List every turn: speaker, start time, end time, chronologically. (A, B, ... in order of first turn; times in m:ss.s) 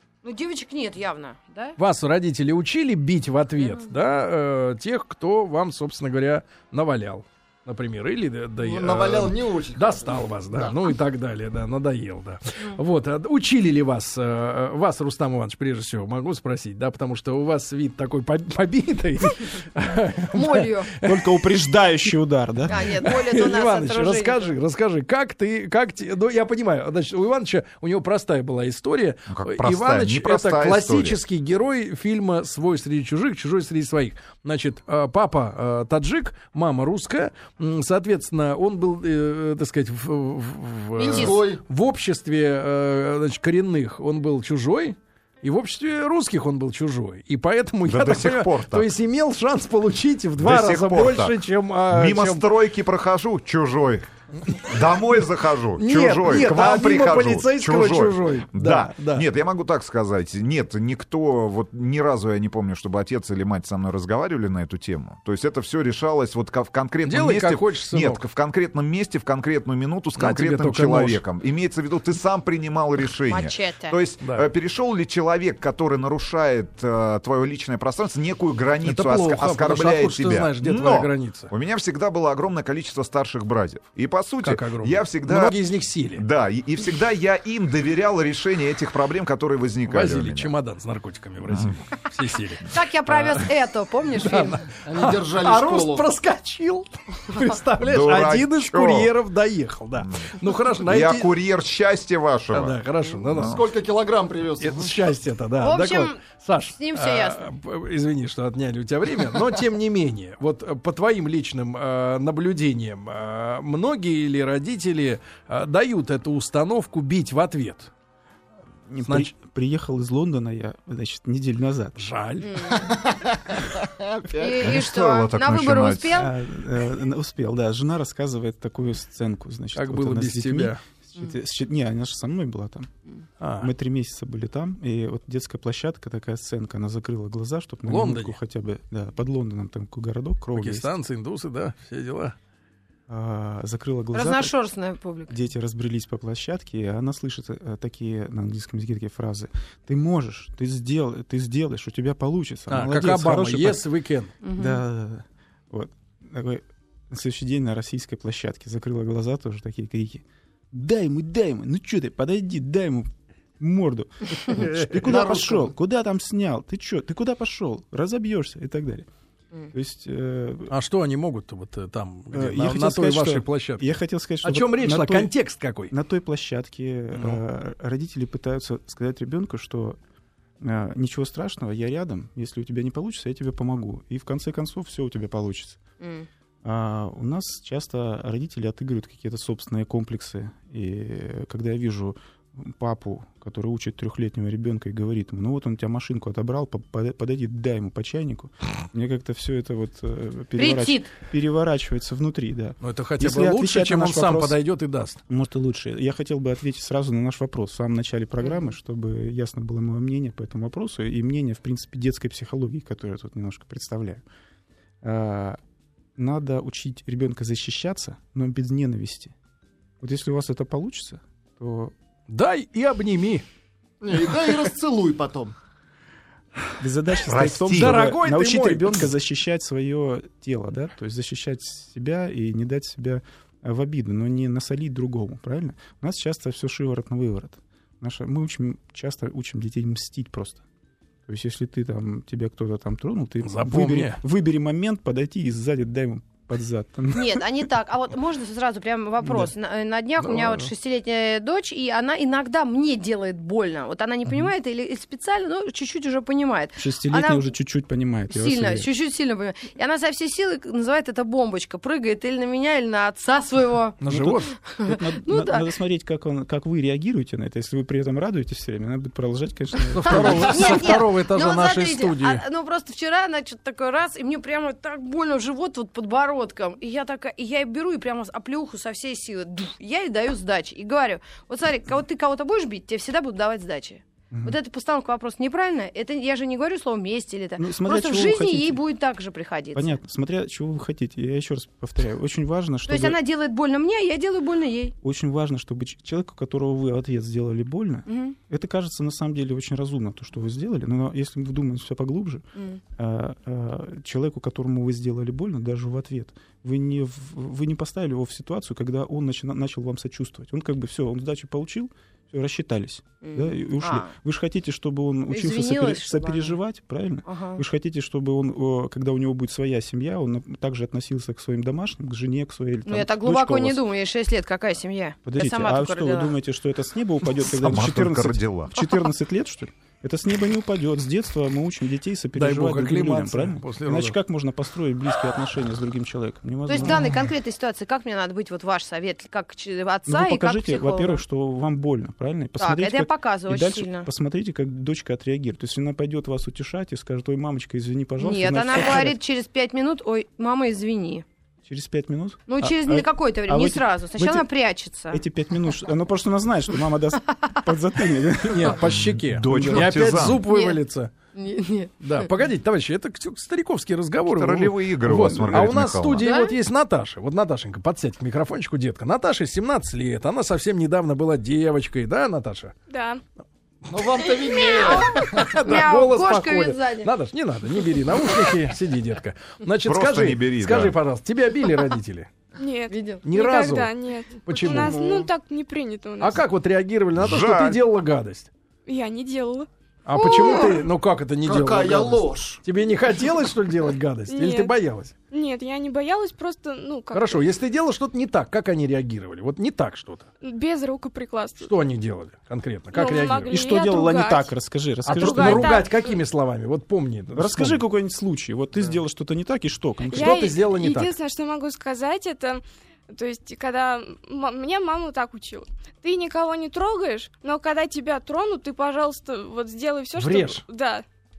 0:00.2-0:01.8 A
0:01.8-0:21.3 B
0:03.6-0:04.0 A
0:08.6-0:10.8 C
0:20.3-0:20.9 A
0:21.0-0:23.0 D
0:22.7-0:24.5 A
0:22.8-0:52.5 B
0:29.3-0:31.2 E
0:41.0-0:41.6 C
0:47.8-0:48.9 E
0:50.4-1:25.6 E
0:55.8-0:59.3 B
1:07.0-1:08.2 B
1:10.2-1:11.2 B
1:13.3-1:14.0 A
1:14.2-1:14.5 B
1:18.8-1:21.5 B
1:24.4-1:26.2 B
1:26.2-1:30.6 E
1:29.9-1:33.4 B
1:31.5-1:31.8 E
1:32.7-1:34.7 A
1:34.2-1:41.3 B
1:34.8-1:36.1 C
1:37.8-1:39.1 E
1:40.0-1:40.3 E
1:40.9-1:43.7 E
1:42.5-1:43.6 B
1:43.4-1:45.1 C
1:44.6-1:57.9 B
1:45.6-1:47.5 A
1:58.9-2:02.0 D
1:59.1-1:59.3 B
2:02.0-2:02.7 B
2:02.4-2:02.9 A
2:02.8-2:04.7 C
2:04.4-2:06.3 A
2:04.6-2:06.2 E
2:06.1-2:12.9 D
2:09.7-2:10.8 B
2:13.4-2:13.7 B
2:13.6-2:20.9 D
2:17.9-2:18.4 B
2:20.6-2:22.4 B
2:23.1-2:24.5 D
2:24.1-2:25.4 A
2:25.3-2:33.8 D
2:32.7-2:34.3 B
2:34.4-2:34.8 A
2:34.6-2:49.1 D
2:44.6-2:45.1 B
2:44.8-2:45.7 C
2:49.7-2:50.7 D
2:50.7-2:55.9 B
2:52.3-2:55.3 D
2:55.9-3:00.0 D
2:57.1-2:57.4 B
3:00.6-3:05.8 D
3:06.0-3:06.3 A
3:06.6-3:24.6 D
3:20.6-3:21.1 A
3:22.8-3:25.2 B
3:25.3-3:34.2 D
3:28.4-3:28.7 A
3:35.0-3:35.6 D
3:36.2-3:39.3 D
3:40.0-3:41.9 D
3:42.3-3:43.4 B
3:44.0-3:45.5 C
3:46.8-4:00.6 D
3:47.2-3:48.0 E
3:47.7-3:49.1 B
4:01.3-4:07.4 D
4:03.4-4:04.2 B
4:07.1-4:17.5 A
4:09.2-4:09.5 D
4:10.2-4:10.7 B
4:16.8-4:18.9 D
4:18.3-4:24.0 A
4:24.0-4:24.5 B
4:24.1-4:31.0 D
4:24.6-4:25.7 A
4:29.9-4:32.4 B
4:30.1-4:50.0 A
4:44.3-4:44.6 D
4:47.6-4:48.8 D
4:49.7-4:53.2 D
4:52.9-4:55.0 A
4:55.0-5:02.4 D
4:58.1-4:58.4 A
5:03.0-5:23.8 D
5:13.2-5:14.1 A
5:15.3-5:16.6 A
5:17.3-5:17.6 A
5:22.8-5:26.4 A
5:25.3-5:37.2 D
5:27.5-5:28.8 E
5:32.4-5:34.2 B
5:36.7-5:41.2 A
5:40.1-5:49.2 D
5:42.6-5:44.1 A
5:48.2-5:51.2 A
5:51.6-5:54.5 D
5:52.5-5:55.2 A
5:55.1-6:00.1 D
5:58.4-6:01.1 B
5:59.2-6:00.5 E
6:00.5-6:00.8 A
6:01.4-6:02.3 A
6:02.0-6:12.7 B
6:04.2-6:06.3 E
6:06.2-6:06.5 A
6:12.9-6:13.2 F
6:13.9-6:15.5 C
6:14.2-6:17.1 A
6:14.9-6:22.3 B
6:19.8-6:21.0 E
6:22.6-6:26.4 F
6:22.9-6:23.2 A
6:23.2-6:23.9 B
6:24.5-6:25.0 B
6:24.6-6:25.3 C
6:26.2-6:28.5 B
6:27.2-6:27.8 E
6:28.9-6:29.7 F
6:30.1-6:35.1 B
6:30.1-6:30.9 A
6:31.4-6:32.6 C
6:34.3-6:34.8 F
6:35.3-6:37.4 F
6:37.1-6:40.3 B
6:40.4-6:41.7 F
6:41.6-6:43.6 B
6:42.9-6:44.5 F
6:43.5-6:45.8 D
6:45.1-6:46.2 F
6:45.1-6:47.8 B
6:47.4-6:50.4 D
6:50.1-7:01.0 F
6:50.1-6:51.1 B
7:00.2-7:00.6 B